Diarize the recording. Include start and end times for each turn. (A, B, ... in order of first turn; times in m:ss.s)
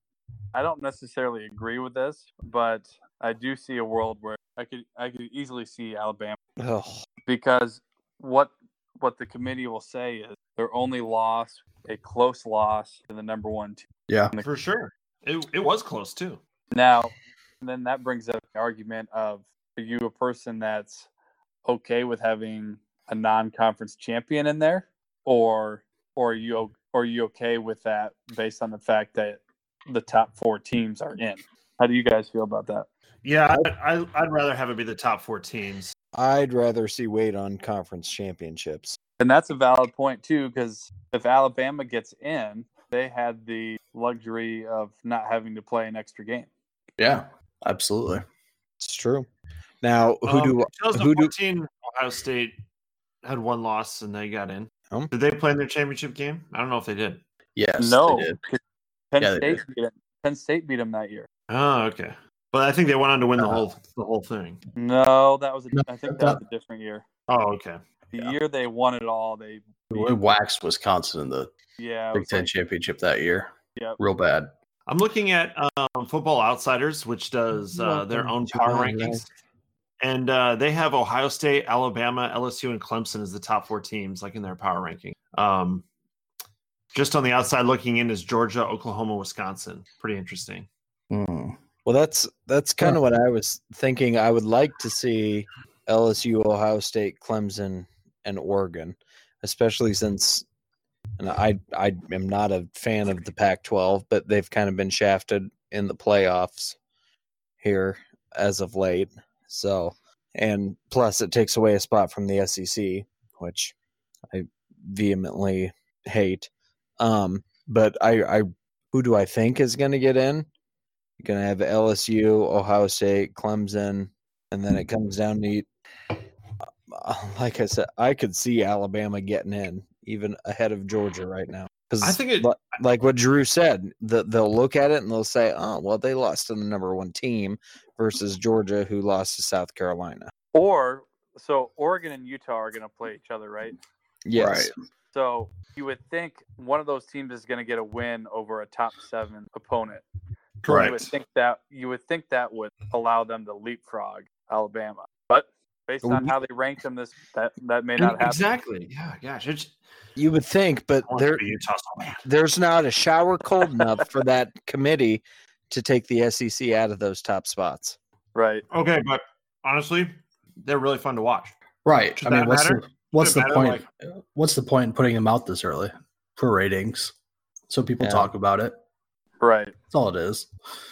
0:00.5-0:06.4 A
0:06.6-0:07.0 B
0:07.3-0:14.5 A
0:14.1-0:14.3 C
0:14.4-0:16.4 D
0:16.7-0:21.1 A
0:21.6-0:32.9 A
0:33.2-0:35.9 D
0:36.1-0:39.0 B
0:39.2-0:46.5 A
0:47.0-0:48.2 C
0:48.8-0:49.3 B
0:49.8-0:51.3 B
0:50.2-0:52.6 D
0:53.2-0:57.2 D
0:57.6-0:58.4 C
0:57.8-0:58.6 A
0:59.1-1:01.3 A
0:59.2-0:59.6 C
1:01.5-1:04.6 D
1:03.4-1:03.6 C
1:04.8-1:07.0 A
1:05.7-1:06.4 C
1:07.3-1:07.8 D
1:08.1-1:10.1 A
1:09.9-1:11.5 C
1:11.8-1:12.5 A
1:12.1-1:14.5 C
1:14.9-1:19.3 D
1:17.9-1:19.1 C
1:18.5-1:19.2 B
1:20.0-1:25.8 D
1:26.9-1:30.7 D
1:31.1-1:31.6 C
1:31.8-1:40.4 B
1:41.2-1:46.8 B
1:47.6-1:53.7 B
1:54.3-2:00.5 B
2:01.2-2:05.7 B
2:06.9-2:20.3 B
2:12.0-2:12.6 D
2:20.5-2:23.8 A
2:24.2-2:24.7 B
2:24.3-2:24.7 C
2:25.1-2:30.0 A
2:30.6-2:31.0 D
2:30.7-2:31.0 C
2:30.7-2:38.4 A
2:36.0-2:36.3 B
2:38.0-2:39.7 D
2:40.2-2:41.4 B
2:41.1-2:42.2 D
2:42.2-2:48.0 B
2:48.3-2:48.6 A
2:48.7-2:51.5 D
2:51.8-2:57.1 C
2:52.2-2:53.8 D
2:57.7-2:58.8 C
2:58.0-2:58.3 B
2:59.4-2:59.7 A
2:59.9-3:00.5 C